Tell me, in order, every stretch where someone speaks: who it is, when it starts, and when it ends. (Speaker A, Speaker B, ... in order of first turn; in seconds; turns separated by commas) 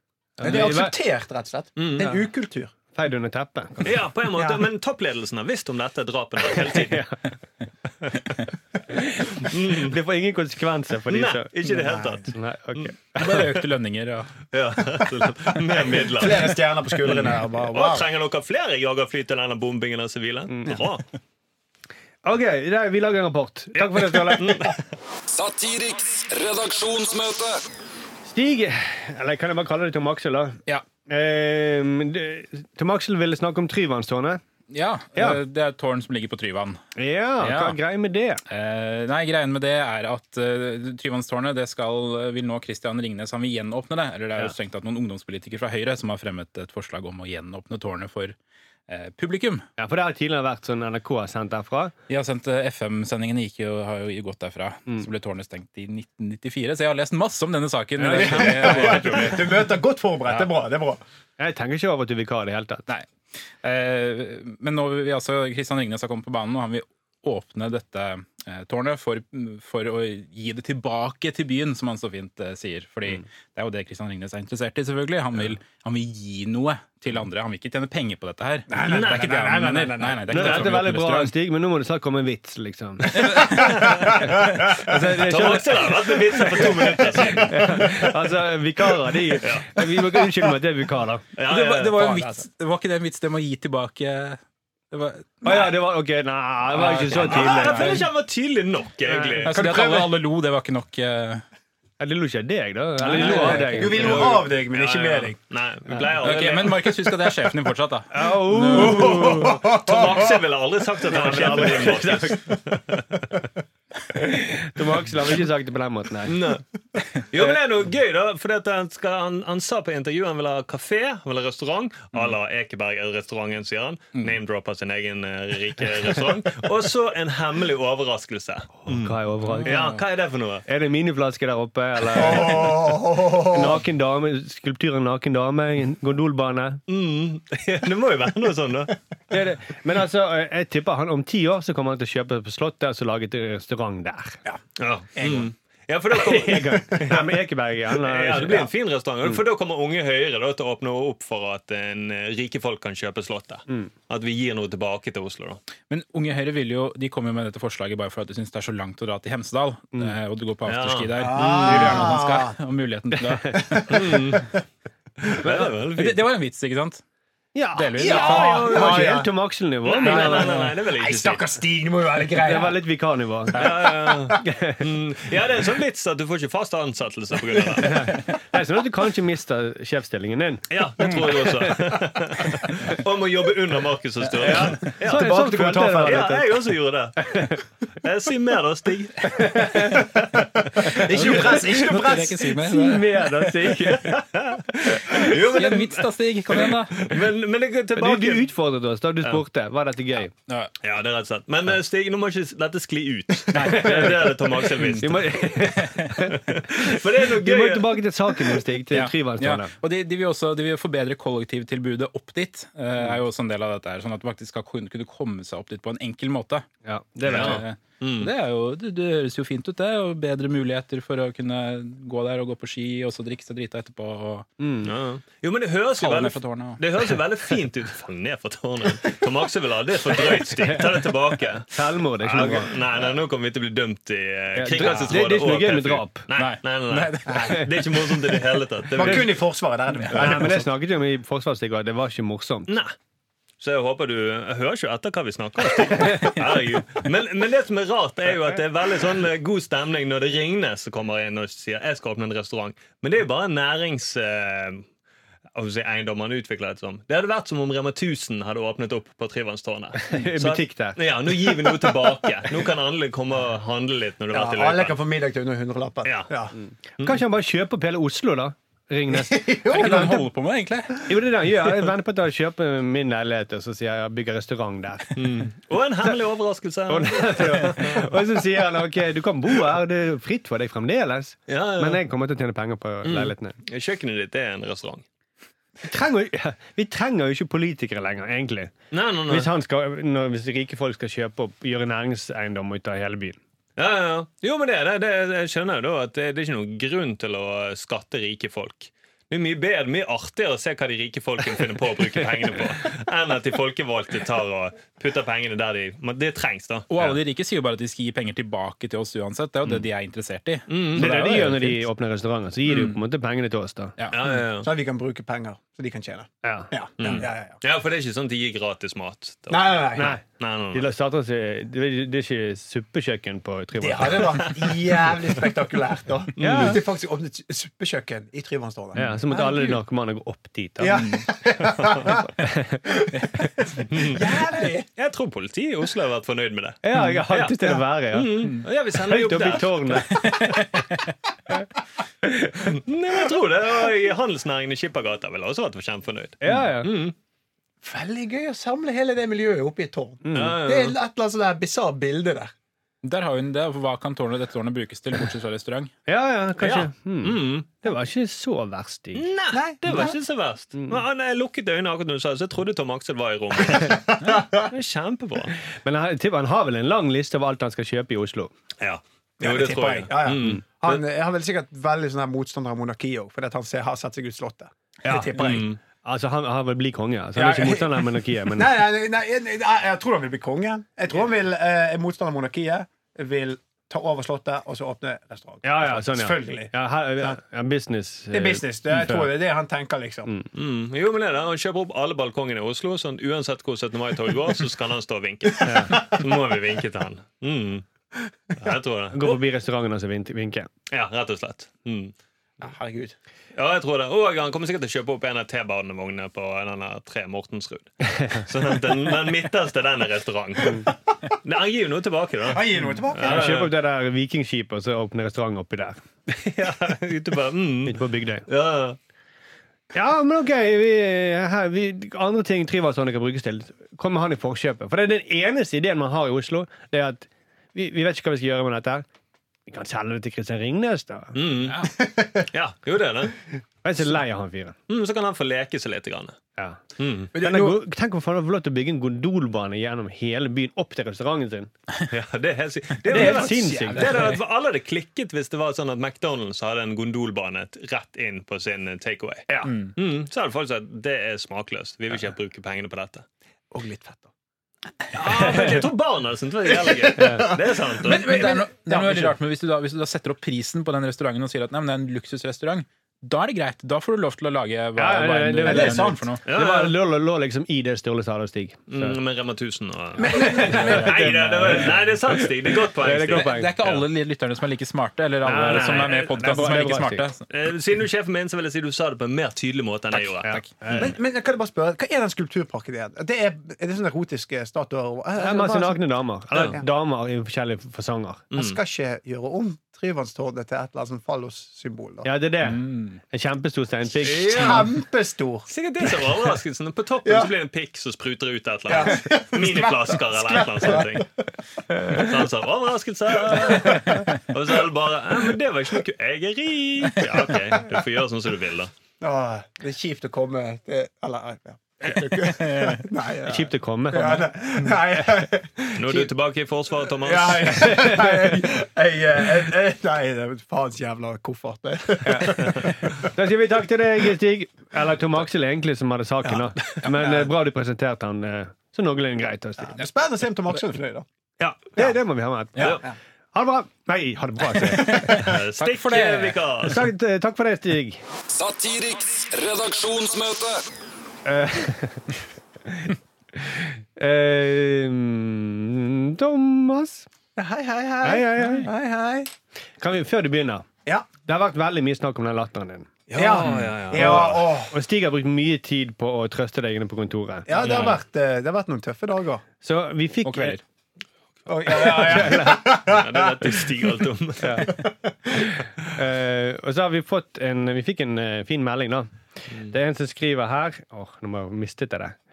Speaker A: 0.4-0.9, Speaker B: 0.4-2.7, Speaker C: 1.8-2.1, Speaker A: 2.9-4.0, Speaker C: 3.8-7.0, Speaker B: 4.4-4.6, Speaker A: 6.7-7.2, Speaker A: 8.9-11.5, Speaker C: 9.4-10.0, Speaker C: 11.1-13.6, Speaker B: 11.8-12.1, Speaker A: 12.3-13.4, Speaker D: 13.2-14.3, Speaker C: 14.5-21.1, Speaker B: 15.7-18.1, Speaker A: 20.5-20.8, Speaker A: 22.2-24.7, Speaker C: 23.8-24.8, Speaker E: 25.3-27.6, Speaker A: 28.2-34.4, Speaker D: 34.7-36.8, Speaker A: 35.1-35.4, Speaker A: 37.0-38.4, Speaker D: 37.4-37.8, Speaker D: 38.5-48.4, Speaker D: 48.9-49.7, Speaker A: 49.8-51.9, Speaker D: 52.1-59.5, Speaker A: 58.0-59.2, Speaker B: 58.1-61.0, Speaker A: 61.4-62.9, Speaker D: 63.6-81.3, Speaker B: 78.7-80.3, Speaker C: 78.9-79.3, Speaker A: 80.3-91.3, Speaker D: 83.2-83.5, Speaker C: 83.5-84.3, Speaker B: 83.7-84.4, Speaker C: 85.1-88.2, Speaker C: 89.4-89.7, Speaker C: 91.4-92.4, Speaker D: 91.5-95.7, Speaker A: 95.4-98.0, Speaker D: 96.7-98.1, Speaker C: 97.1-99.6, Speaker D: 99.4-101.4, Speaker B: 99.5-100.2, Speaker A: 102.0-104.3, Speaker D: 103.0-104.3, Speaker B: 103.2-105.4, Speaker C: 103.2-107.1, Speaker D: 106.2-109.1, Speaker A: 108.1-109.6, Speaker B: 108.7-110.4, Speaker C: 108.7-113.2, Speaker A: 111.1-112.6, Speaker A: 114.1-116.4, Speaker C: 116.3-116.7, Speaker C: 117.3-130.7, Speaker A: 128.8-129.8, Speaker D: 129.5-130.0, Speaker A: 130.7-136.8, Speaker B: 132.1-133.8, Speaker C: 136.9-138.9, Speaker A: 139.3-144.4, Speaker C: 144.8-147.2, Speaker B: 145.2-145.5, Speaker A: 146.1-148.7, Speaker C: 148.0-155.6, Speaker D: 155.9-163.9, Speaker C: 160.7-162.1, Speaker B: 161.2-162.6, Speaker B: 163.5-164.5, Speaker C: 163.9-164.5, Speaker C: 165.3-166.3, Speaker D: 165.4-167.0, Speaker A: 167.6-170.6, Speaker D: 167.8-168.6, Speaker B: 168.0-169.3, Speaker C: 168.0-169.2, Speaker C: 169.8-171.4, Speaker B: 170.1-172.8, Speaker A: 172.4-174.8, Speaker C: 173.5-178.2, Speaker D: 173.6-173.8, Speaker A: 177.8-181.8, Speaker C: 180.7-191.6, Speaker A: 184.4-186.5, Speaker B: 185.0-186.3, Speaker A: 187.2-187.6, Speaker A: 189.4-190.0, Speaker B: 190.8-192.6, Speaker D: 191.1-193.4, Speaker A: 191.2-191.6, Speaker A: 192.6-194.2, Speaker C: 193.6-198.5, Speaker A: 195.0-195.3, Speaker D: 195.2-197.1, Speaker A: 198.0-200.3, Speaker D: 200.5-200.7, Speaker C: 200.8-205.4, Speaker D: 203.5-205.1, Speaker A: 203.8-204.2, Speaker A: 205.0-209.7, Speaker D: 205.8-206.1, Speaker C: 206.3-208.0, Speaker D: 208.9-216.7, Speaker A: 216.8-217.6, Speaker D: 217.2-224.5, Speaker C: 217.3-218.3, Speaker A: 224.6-224.9, Speaker C: 224.8-239.3, Speaker D: 226.0-226.8, Speaker A: 231.7-232.7, Speaker A: 234.6-236.3, Speaker D: 234.7-235.2, Speaker D: 236.4-238.1, Speaker B: 238.9-240.7, Speaker A: 240.1-242.7, Speaker C: 242.7-242.9, Speaker C: 243.6-254.9, Speaker C: 255.6-265.0, Speaker A: 260.0-261.0, Speaker B: 264.3-266.6, Speaker C: 266.0-266.3, Speaker A: 267.0-270.2, Speaker B: 269.1-270.3, Speaker D: 269.7-271.1, Speaker A: 271.0-275.2, Speaker C: 275.1-278.1, Speaker A: 276.9-283.6, Speaker C: 281.5-282.0, Speaker C: 283.0-285.1, Speaker A: 285.8-288.7, Speaker C: 288.9-289.5, Speaker A: 289.3-293.4, Speaker C: 293.8-307.2, Speaker D: 306.9-311.8, Speaker C: 310.7-311.1, Speaker A: 311.0-313.9, Speaker D: 312.7-312.9, Speaker D: 314.0-314.2, Speaker C: 314.1-314.7, Speaker B: 314.6-317.6, Speaker A: 316.4-316.7, Speaker C: 317.0-320.9, Speaker B: 319.5-320.1, Speaker A: 320.0-320.2, Speaker A: 320.7-324.5, Speaker B: 323.8-329.8, Speaker C: 324.3-325.0, Speaker C: 326.4-326.8, Speaker A: 326.4-326.8, Speaker A: 328.9-331.1, Speaker B: 330.8-332.3, Speaker D: 331.0-331.2, Speaker C: 331.8-332.1, Speaker A: 332.4-332.8, Speaker B: 332.9-334.9, Speaker C: 333.9-334.3, Speaker C: 335.0-340.1, Speaker A: 336.8-340.5, Speaker D: 340.2-340.9, Speaker A: 342.2-342.6, Speaker C: 342.6-347.1, Speaker A: 346.4-346.9, Speaker B: 347.8-352.5, Speaker A: 350.2-350.6, Speaker C: 350.3-351.0, Speaker D: 353.0-355.9, Speaker A: 356.1-359.3, Speaker C: 356.6-357.7, Speaker C: 359.1-365.6, Speaker B: 359.5-360.1, Speaker B: 364.3-364.6, Speaker A: 365.8-368.5, Speaker C: 368.8-371.0, Speaker B: 369.4-375.7, Speaker A: 375.1-375.3, Speaker C: 375.4-375.8, Speaker A: 376.0-378.7, Speaker B: 377.4-387.4, Speaker A: 385.6-389.3, Speaker B: 388.3-390.3, Speaker C: 390.5-397.9, Speaker A: 395.6-396.0, Speaker C: 398.6-399.4, Speaker A: 399.1-400.7, Speaker C: 400.9-402.1, Speaker B: 402.6-403.1, Speaker C: 403.6-413.7, Speaker B: 412.5-413.5, Speaker A: 413.2-416.0, Speaker C: 416.3-419.0, Speaker A: 417.9-418.5, Speaker A: 419.9-429.1, Speaker A: 429.7-431.4, Speaker C: 431.3-431.9, Speaker D: 431.6-431.9, Speaker B: 432.1-432.4, Speaker C: 432.5-433.4, Speaker A: 433.8-434.8, Speaker C: 434.9-436.4, Speaker C: 437.0-437.3, Speaker A: 437.3-441.7, Speaker B: 437.4-437.8, Speaker C: 442.1-453.2, Speaker A: 443.1-444.3, Speaker B: 443.1-444.0, Speaker D: 443.3-444.4, Speaker B: 453.7-454.3, Speaker C: 455.1-458.4, Speaker A: 455.4-455.7, Speaker B: 456.8-459.4, Speaker A: 457.2-457.5, Speaker D: 458.0-466.5, Speaker A: 465.0-469.2, Speaker B: 465.6-466.3, Speaker C: 466.4-466.9, Speaker C: 468.9-474.1, Speaker B: 470.2-471.6, Speaker A: 470.2-473.8, Speaker D: 473.3-477.5, Speaker A: 475.4-477.3, Speaker C: 475.7-476.3, Speaker C: 477.5-481.1, Speaker D: 480.2-480.7, Speaker A: 480.4-481.1, Speaker B: 480.9-486.0, Speaker A: 485.4-488.4, Speaker B: 486.6-486.9, Speaker C: 488.5-488.8, Speaker B: 488.5-492.3, Speaker A: 492.2-494.9, Speaker D: 492.6-493.2, Speaker B: 494.2-496.3, Speaker C: 494.6-494.8, Speaker C: 495.7-501.3, Speaker B: 497.2-497.5, Speaker B: 498.9-501.3, Speaker C: 502.1-508.9, Speaker B: 503.5-504.1, Speaker B: 509.2-516.3, Speaker D: 512.5-513.0, Speaker A: 513.5-514.5, Speaker C: 516.0-518.0, Speaker B: 517.1-523.3, Speaker A: 518.0-518.4, Speaker D: 522.3-522.5, Speaker A: 523.2-530.0, Speaker B: 526.5-527.5, Speaker B: 529.9-531.2, Speaker A: 531.6-533.0, Speaker C: 532.8-533.0, Speaker A: 533.5-535.5, Speaker D: 535.1-536.6, Speaker C: 535.3-537.1, Speaker A: 536.9-538.2, Speaker E: 538.5-540.8, Speaker A: 541.5-542.3, Speaker A: 542.9-547.3, Speaker B: 547.6-549.5, Speaker A: 548.2-548.9, Speaker A: 550.0-550.9, Speaker A: 551.4-553.1, Speaker C: 553.3-554.6, Speaker B: 553.3-554.9, Speaker A: 554.1-558.1, Speaker B: 557.7-559.6, Speaker C: 557.8-558.2, Speaker A: 559.8-560.8, Speaker D: 560.5-560.8, Speaker B: 561.7-563.9, Speaker A: 561.9-562.9, Speaker C: 563.0-564.9, Speaker A: 564.6-564.9, Speaker A: 566.1-572.4